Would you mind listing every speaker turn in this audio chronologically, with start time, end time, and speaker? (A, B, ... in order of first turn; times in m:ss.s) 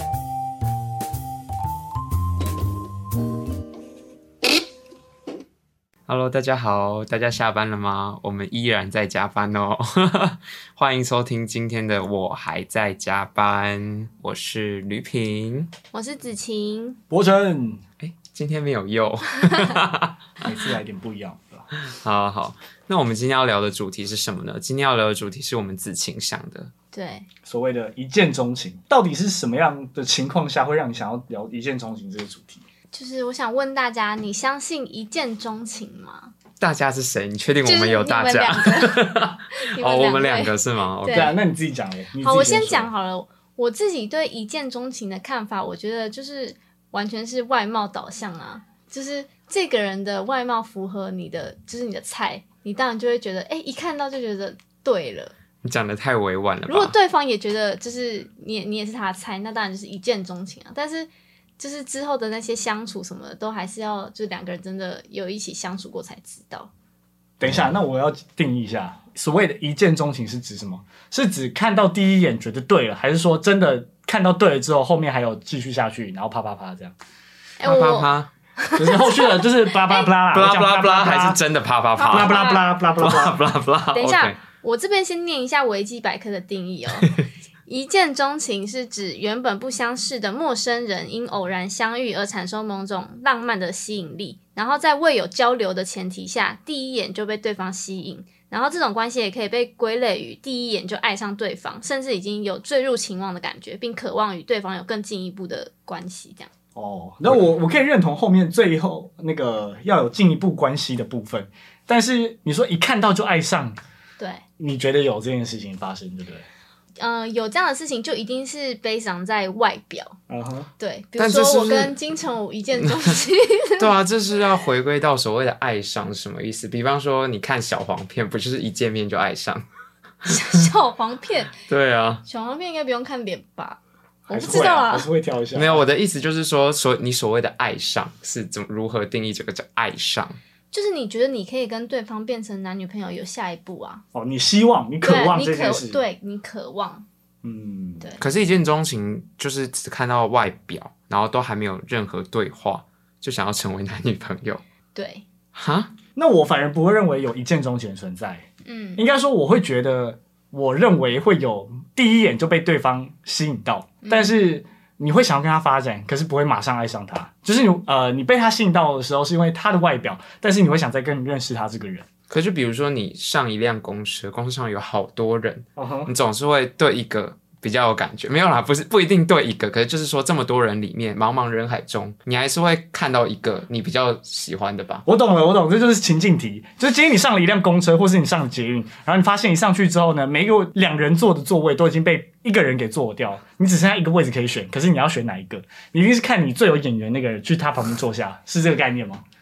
0:06.1-0:15.7 A
0:15.9-0:17.0 B
0:17.1-0:17.8 C
0:18.0-0:20.4 A
0:20.4-0:21.7 C
0:21.7-0:26.7 A
0:26.9-0:27.3 B
0:27.4-0:32.6 C
0:32.9-0:36.3 B
0:36.6-0:41.3 A
0:37.6-0:41.4 B
0:41.1-0:42.9 C
0:42.2-0:55.3 B
0:55.6-0:56.9 A
0:56.7-1:06.7 B
1:07.4-1:16.9 C
1:17.6-1:20.1 B
1:17.6-1:18.3 A
1:18.7-1:21.4 C
1:20.3-1:24.4 A
1:22.0-1:22.8 B
1:22.0-1:23.4 C
1:23.9-1:27.1 B
1:27.7-1:46.5 B
1:46.7-1:53.8 C
1:54.2-1:54.4 B
1:54.6-1:56.4 C
1:57.0-2:00.2 B
2:00.3-2:00.7 C
2:00.8-2:03.9 B
2:01.2-2:01.9 A
2:02.8-2:03.2 A
2:03.8-2:09.6 A
2:10.2-2:10.6 A
2:10.3-2:11.5 B
2:11.6-2:12.2 A
2:12.2-2:15.1 B
2:14.3-2:15.8 C
2:15.5-2:20.4 A
2:20.7-2:24.0 B
2:24.1-2:26.0 C
2:25.0-2:27.0 B
2:27.4-2:28.1 C
2:28.2-2:34.6 A
2:34.9-2:35.2 B
2:35.5-2:35.9 A
2:36.2-2:52.1 C
2:38.6-2:39.0 B
2:44.0-2:44.4 B
2:52.3-3:05.0 A
2:55.8-2:56.1 C
3:05.0-3:19.2 C